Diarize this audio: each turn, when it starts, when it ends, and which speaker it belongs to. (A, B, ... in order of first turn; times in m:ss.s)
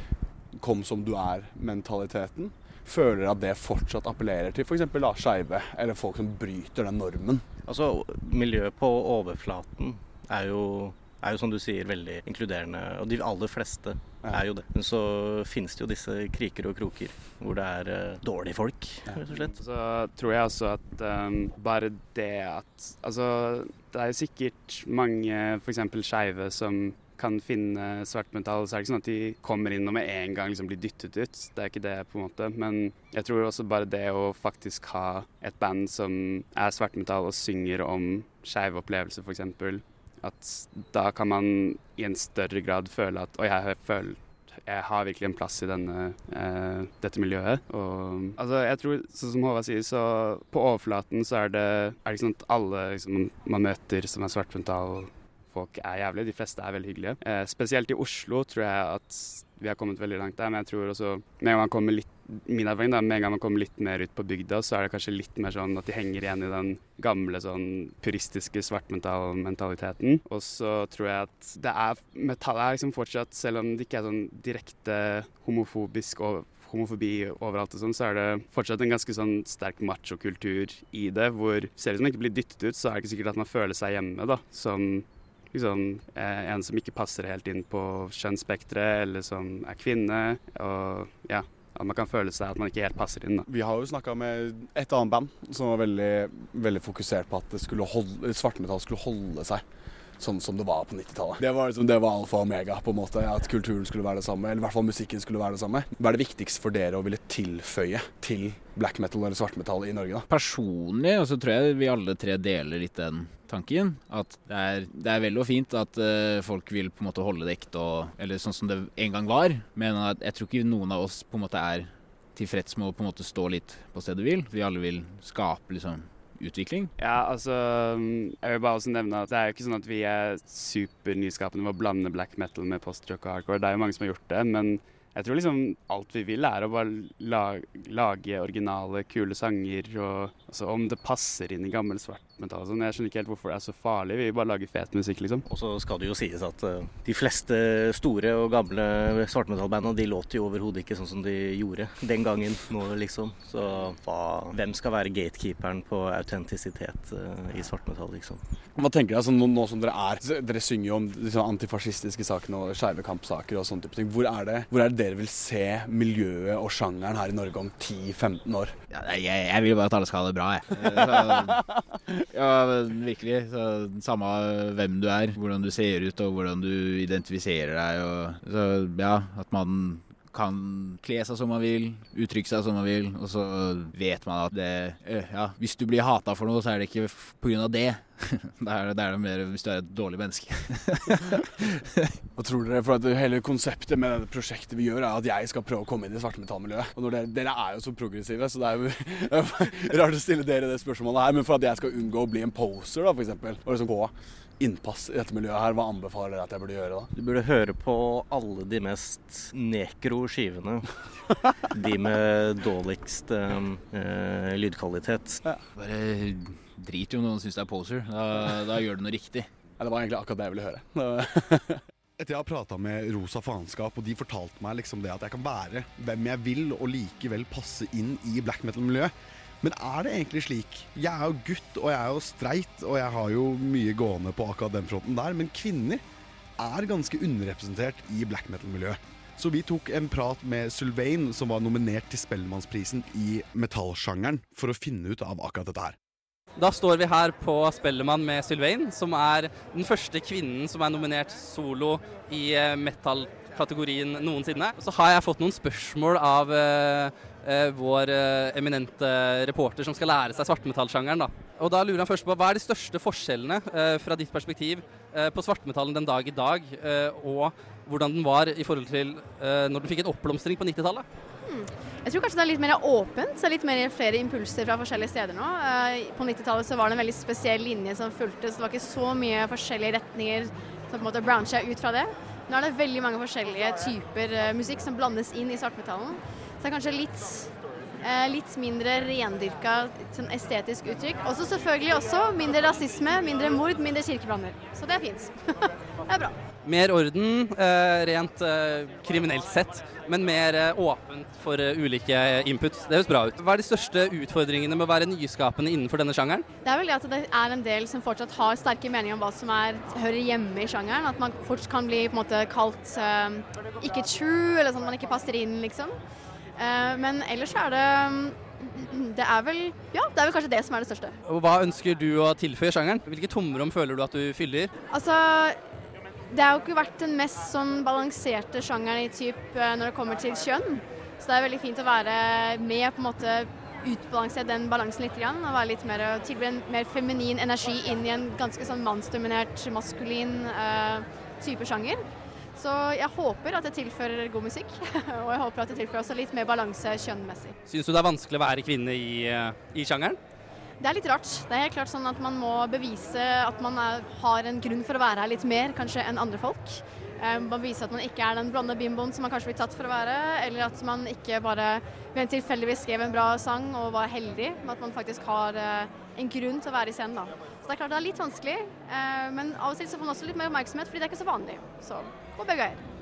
0:00.5-0:07.5 A
0:07.7-0:19.6 B
0:19.5-1:33.5 C
1:33.5-1:39.6 A
1:40.2-1:50.3 A
1:50.3-2:06.9 D
2:07.0-2:25.4 C
2:25.5-2:38.4 B
2:38.8-2:48.7 A
2:48.9-2:51.7 D
2:52.3-3:12.1 D
3:12.4-3:27.1 A
3:27.1-3:30.9 B
3:31.7-3:35.4 B
3:35.8-3:39.5 D
3:39.8-3:56.0 A
3:56.6-4:06.0 A
4:06.6-4:31.0 E
4:31.5-4:56.3 F
4:56.6-5:06.4 E
5:06.6-5:16.0 F
5:16.6-5:21.2 F
5:21.3-5:24.7 E
5:24.9-5:25.6 F
5:26.3-5:42.0 F
5:42.6-5:47.6 F
5:47.7-5:50.2 E
5:50.8-6:12.8 F